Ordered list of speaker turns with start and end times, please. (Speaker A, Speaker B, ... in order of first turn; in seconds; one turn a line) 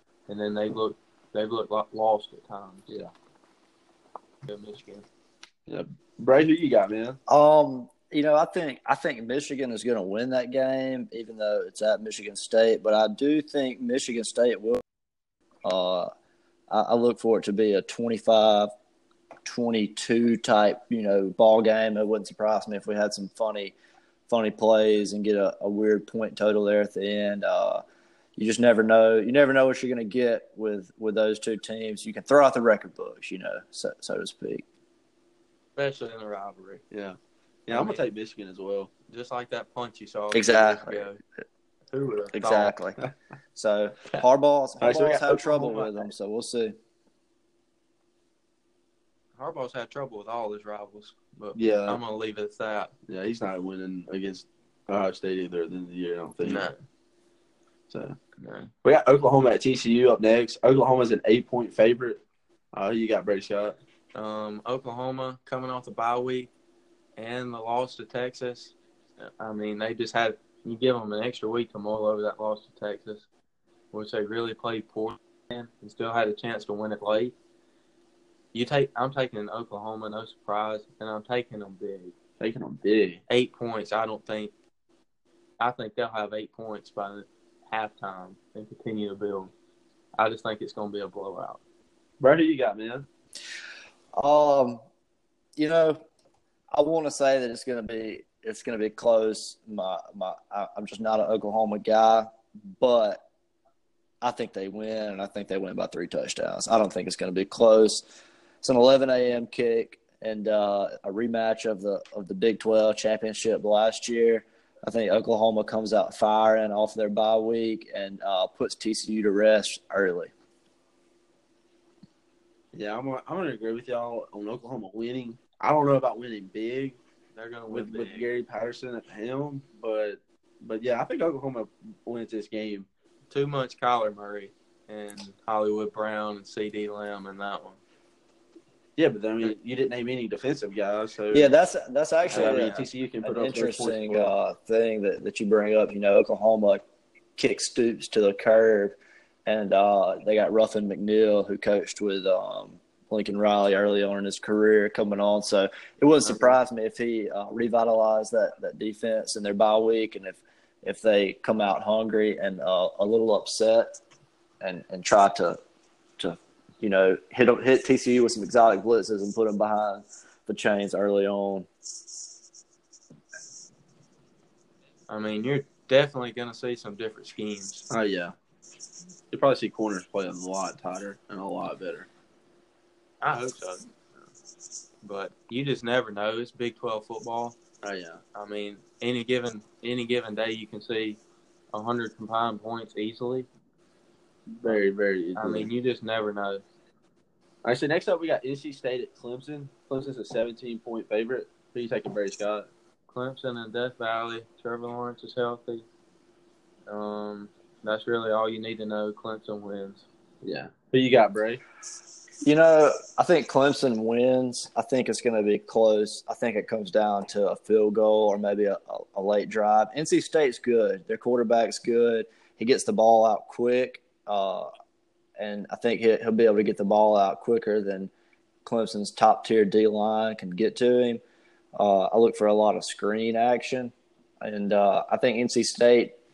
Speaker A: 0.3-2.9
Speaker A: 4.5-5.0
Speaker B: 5.7-7.2
Speaker C: 7.3-14.8
Speaker C: 15.6-16.1
Speaker C: 16.7-18.7
Speaker C: 19.4-23.7
Speaker C: 24.3-27.8
Speaker C: 28.4-34.6
Speaker A: 35.8-36.8
Speaker B: 36.9-37.2
Speaker B: 37.7-38.9
Speaker A: 37.7-38.0
Speaker A: 39.1-41.2
Speaker C: 40.3-41.0
Speaker A: 41.9-42.8
Speaker C: 42.3-43.0
Speaker C: 43.5-46.8
Speaker B: 44.8-46.0
Speaker A: 49.4-52.9
Speaker B: 51.5-52.0
Speaker B: 53.1-56.7
Speaker A: 56.4-56.8
Speaker B: 57.9-58.2
Speaker A: 58.4-58.7
Speaker B: 58.8-62.2
Speaker B: 62.7-63.8
Speaker A: 64.1-66.5
Speaker A: 67.2-73.3
Speaker A: 73.9-77.3
Speaker A: 78.5-82.1
Speaker B: 82.4-83.2
Speaker A: 83.3-84.5
Speaker A: 85.6-89.5
Speaker A: 90.2-91.6
Speaker B: 92.2-93.1
Speaker C: 94.2-94.8
Speaker C: 95.6-96.0
Speaker C: 96.7-103.2
Speaker C: 104.2-108.0
Speaker C: 108.6-120.3
Speaker B: 122.7-127.0
Speaker A: 127.3-128.3
Speaker B: 127.7-132.9
Speaker A: 133.3-137.8
Speaker B: 139.0-141.5
Speaker C: 141.3-146.8
Speaker A: 142.2-142.9
Speaker B: 142.3-144.3
Speaker C: 147.4-163.9
Speaker C: 164.6-165.6
Speaker C: 166.2-171.7
Speaker A: 175.1-177.9
Speaker B: 177.9-178.3
Speaker B: 179.3-182.1
Speaker A: 183.2-183.8
Speaker A: 185.0-187.6
Speaker B: 187.8-188.2
Speaker A: 188.3-191.2
Speaker A: 191.7-193.5
Speaker B: 194.6-195.7
Speaker A: 195.3-196.6
Speaker B: 197.6-202.7
Speaker A: 203.1-205.8
Speaker A: 206.9-210.0
Speaker B: 210.4-211.6
Speaker C: 212.4-224.7
Speaker C: 225.4-228.1
Speaker C: 228.6-231.2
Speaker C: 231.8-236.2